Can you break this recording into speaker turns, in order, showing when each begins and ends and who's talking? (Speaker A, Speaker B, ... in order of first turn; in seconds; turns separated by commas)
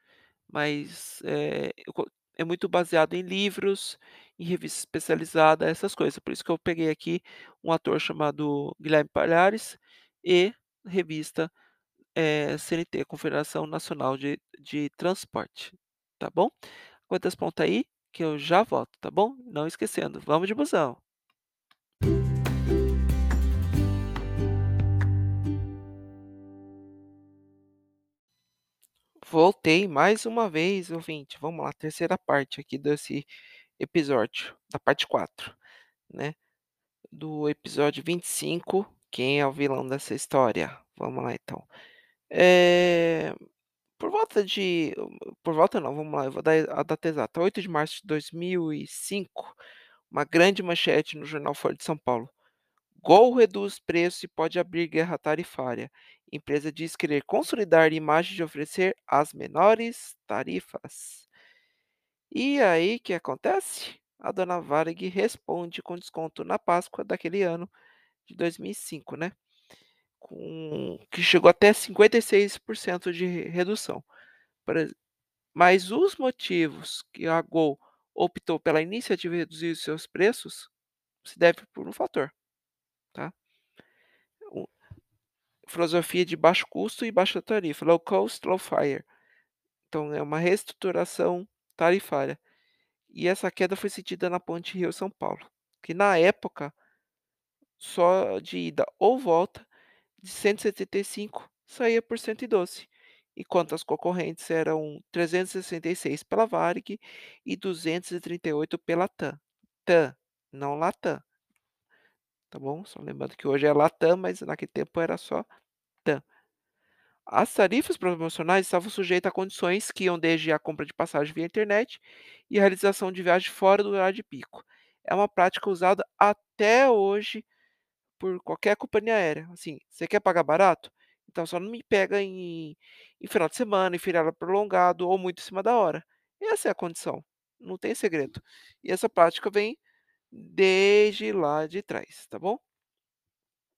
Speaker A: 0.5-11.5, Speaker A: 12.2-16.5, Speaker A: 17.1-21.0, Speaker A: 29.2-33.3, Speaker A: 33.8-35.6, Speaker A: 36.1-36.4, Speaker A: 37.1-41.7, Speaker A: 42.3-43.3, Speaker A: 44.0-49.6, Speaker A: 50.1-52.3, Speaker A: 53.0-61.3, Speaker A: 62.3-67.7, Speaker A: 68.2-69.3, Speaker A: 70.2-74.1, Speaker A: 74.7-74.9, Speaker A: 75.5-80.7, Speaker A: 81.2-82.3, Speaker A: 85.7-89.1, Speaker A: 89.9-92.4, Speaker A: 93.1-96.8, Speaker A: 97.8-99.7, Speaker A: 100.2-111.2, Speaker A: 112.5-115.5, Speaker A: 117.3-127.5, Speaker A: 128.2-139.8, Speaker A: 140.3-142.6